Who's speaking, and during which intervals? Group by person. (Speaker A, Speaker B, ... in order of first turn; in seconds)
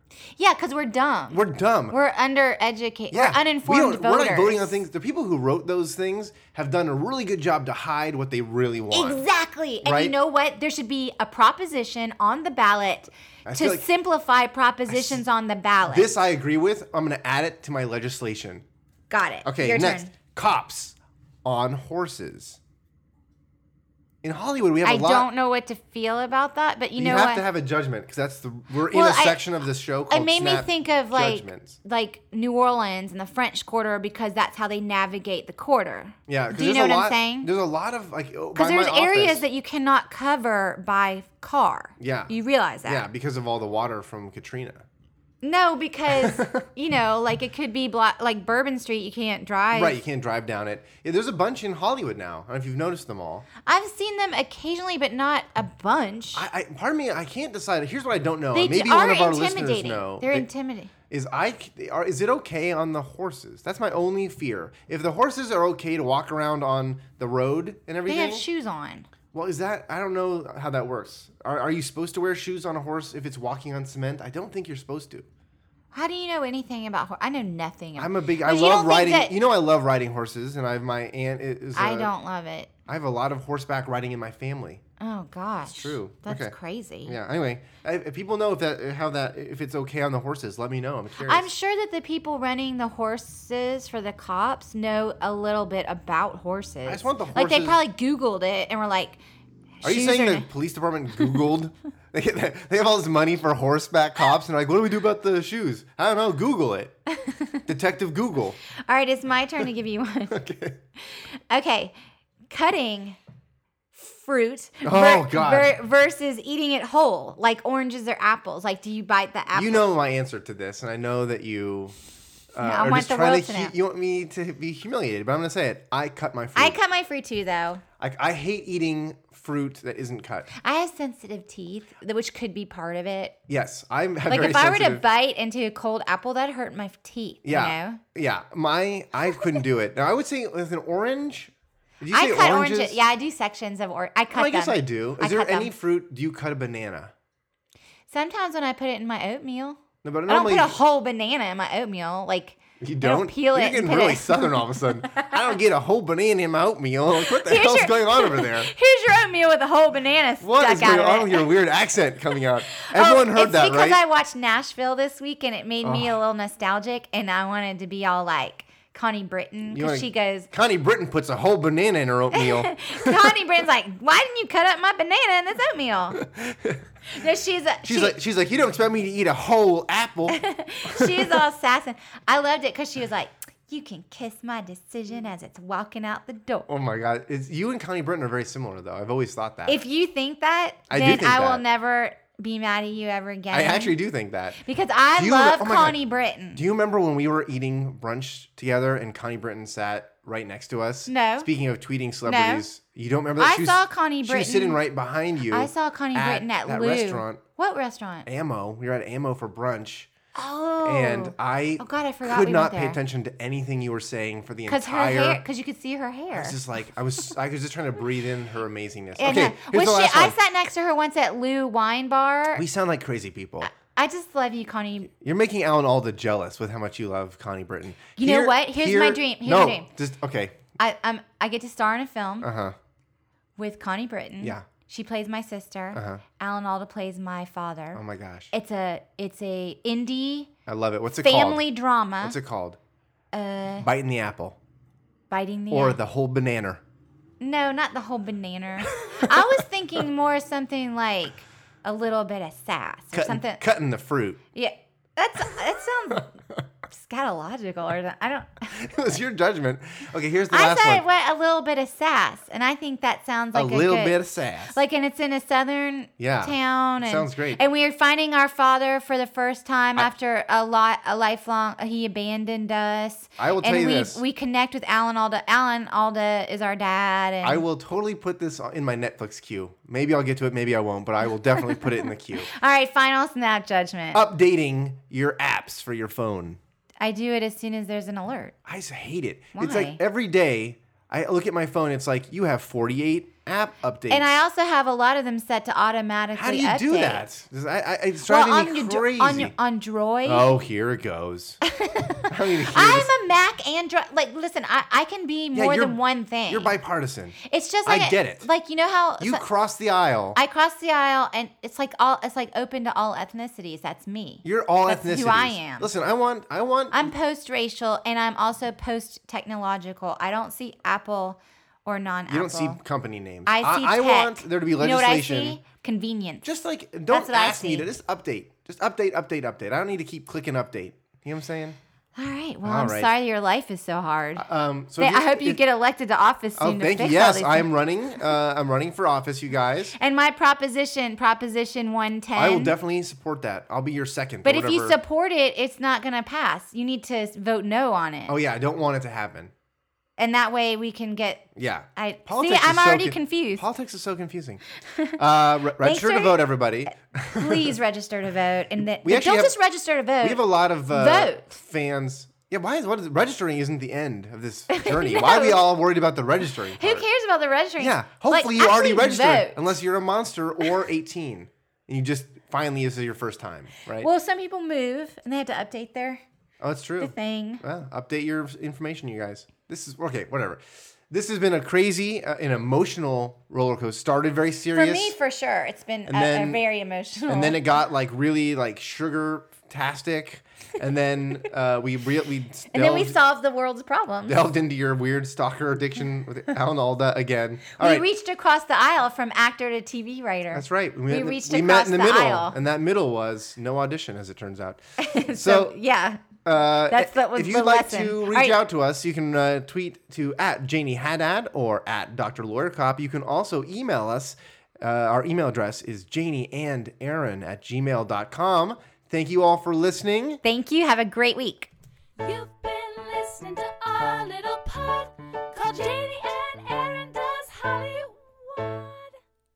Speaker A: 0.4-4.8, 8.9-16.1, 19.1-20.1, 24.8-27.4, 28.9-29.4, 30.1-37.5, 38.5-43.0, 45.4-50.0, 53.7-56.5, 58.5-60.9, 68.0-69.1, 75.9-79.3, 81.8-82.7, 85.0-87.2, 91.2-99.2, 99.8-100.5, 107.2-107.6, 108.8-110.4, 111.1-111.9, 112.5-113.2, 113.9-119.9, 122.6-123.7, 126.6-127.8, 130.6-133.4, 134.3-138.0, 142.1-145.7, 148.1-155.4, 157.2-161.5, 162.7-170.5, 172.3-176.2, 177.1-178.2, 180.3-186.7, 189.7-194.0, 194.6-196.6, 201.1-201.5, 202.3-202.6, 203.4-204.8, 205.5-208.3, 210.3-213.0, 214.7-216.6, 219.2-222.7, 223.6-225.1, 228.2-229.9, 230.8-232.5, 233.6-238.0, 238.5-240.5, 241.2-242.4, 243.3-243.9, 245.3-246.0, 247.4-253.6, 254.6-256.3, 256.9-258.9, 260.5-264.2, 264.7-277.6, 281.6-284.2, 287.0-288.6, 289.6-290.0, 294.1-297.3, 298.3-300.5, 301.7-306.7, 307.4-309.4, 310.4-315.9, 316.9-322.8, 323.5-326.4, 327.1-327.9, 332.2-334.5, 335.0-337.7, 339.9-342.7, 344.4-348.3, 350.2-353.6, 354.9-355.2, 355.7-356.6, 357.4-361.6, 364.7-365.7, 366.8-369.7, 374.0-376.2, 377.0-377.6, 384.7-387.6, 392.7-394.4, 397.8-402.6, 405.0-408.6, 420.4-421.7
Speaker B: 1.3-2.0, 3.1-9.2, 9.8-10.2, 13.5-13.9, 14.9-15.2, 15.8-18.6, 19.4-22.6, 24.2-25.3, 27.0-31.8, 36.3-39.5, 42.0-42.3, 42.9-44.9, 46.2-46.6, 49.7-53.5, 56.3-60.5, 61.1-68.4, 69.3-75.3, 78.0-82.1, 82.9-84.8, 85.7-91.5, 96.9-97.8, 99.8-107.0, 107.7-108.6, 110.3-110.8, 114.8-115.8, 119.5-121.9, 122.5-126.8, 128.0-130.5, 133.5-135.0, 137.4-143.0, 144.3-147.1, 150.0-150.8, 152.8-158.7, 160.4-164.0, 165.8-166.2, 169.7-173.4, 176.2-176.8, 177.8-181.4, 186.7-189.8, 190.9-191.6, 193.5-194.6, 195.2-196.0, 196.6-207.4, 208.3-210.1, 210.8-215.4, 216.3-220.4, 222.6-223.7, 225.1-230.6, 232.4-232.8, 234.4-234.7, 235.9-236.2, 237.9-238.5, 240.7-241.6, 242.2-242.8, 243.8-244.6, 245.7-246.8, 248.9-249.5, 253.1-254.4, 258.7-261.1, 263.5-264.8, 266.2-267.6, 273.4-274.2, 277.4-282.5, 284.1-286.6, 288.6-294.3, 296.4-299.5, 300.2-301.6, 302.3-303.1, 305.5-308.5, 309.2-310.4, 314.4-317.1, 322.3-325.6, 326.4-331.8, 332.6-333.1, 334.4-335.6, 336.6-339.9, 342.4-345.0, 348.3-349.5, 351.6-354.6, 355.2-357.8, 359.0-359.6, 360.2-367.1, 367.8-374.1, 376.6-385.2, 386.1-386.6, 387.2-393.2, 394.3-398.1, 400.5-405.8, 406.4-420.4
Speaker C: 422.2-429.2